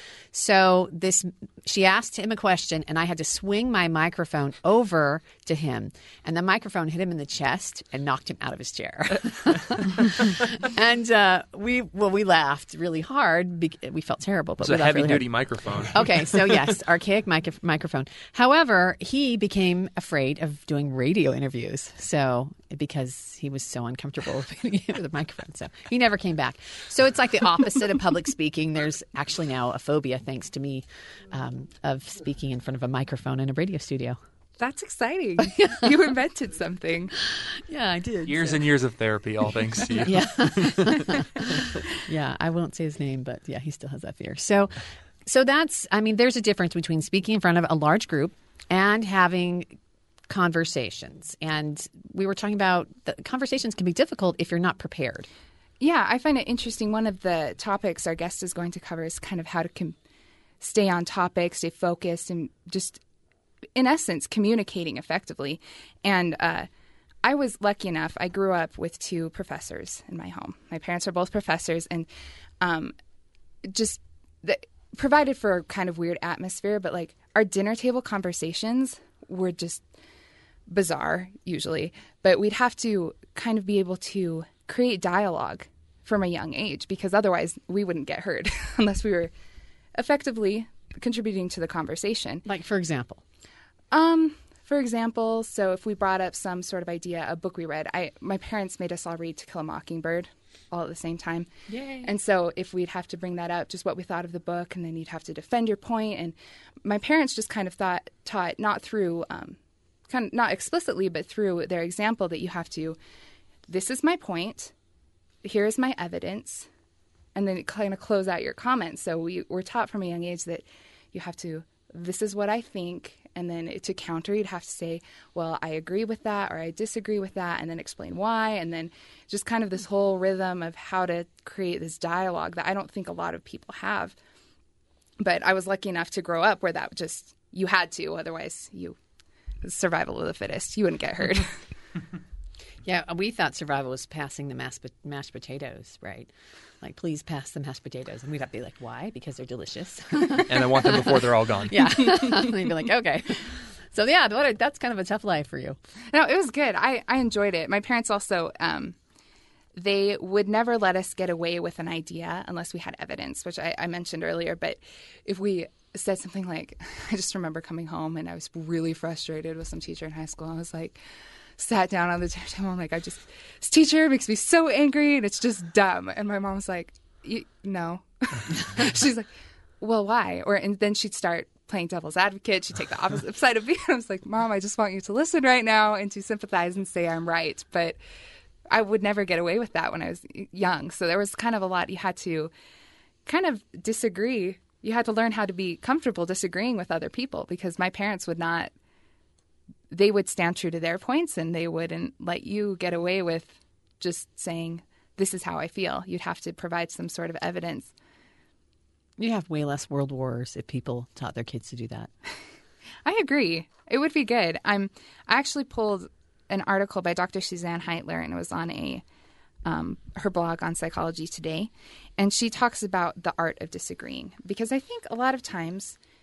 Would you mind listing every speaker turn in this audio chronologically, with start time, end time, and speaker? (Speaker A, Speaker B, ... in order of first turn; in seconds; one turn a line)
Speaker A: 0.3-15.3
Speaker B: 14.6-16.7
Speaker A: 15.9-34.2
Speaker C: 34.6-37.1
Speaker A: 37.7-38.6
Speaker B: 38.2-41.2
Speaker A: 40.0-49.8
Speaker A: 50.3-55.3
Speaker C: 55.8-60.0
Speaker C: 60.6-63.0
Speaker C: 63.8-66.7
Speaker C: 67.2-72.1
Speaker C: 72.6-73.0
Speaker C: 73.7-79.8
Speaker C: 80.7-89.3
Speaker C: 89.9-92.4
Speaker A: 92.4-93.2
Speaker C: 93.9-101.5
Speaker A: 101.7-102.1
Speaker C: 102.0-109.6
Speaker C: 110.1-113.0
Speaker C: 113.7-114.7
Speaker C: 115.4-116.7
Speaker C: 117.3-134.2
Speaker C: 135.2-138.9
Speaker C: 139.6-141.6
Speaker A: 142.8-146.3
Speaker A: 146.8-151.0
Speaker B: 150.5-152.5
Speaker A: 151.7-155.8
Speaker C: 156.1-158.9
Speaker C: 159.7-171.0
Speaker C: 171.6-179.3
Speaker C: 179.8-188.0
Speaker C: 188.7-192.5
Speaker C: 193.3-198.7
Speaker C: 199.9-207.9
Speaker A: 209.2-212.1
Speaker C: 213.1-219.0
Speaker C: 219.6-226.0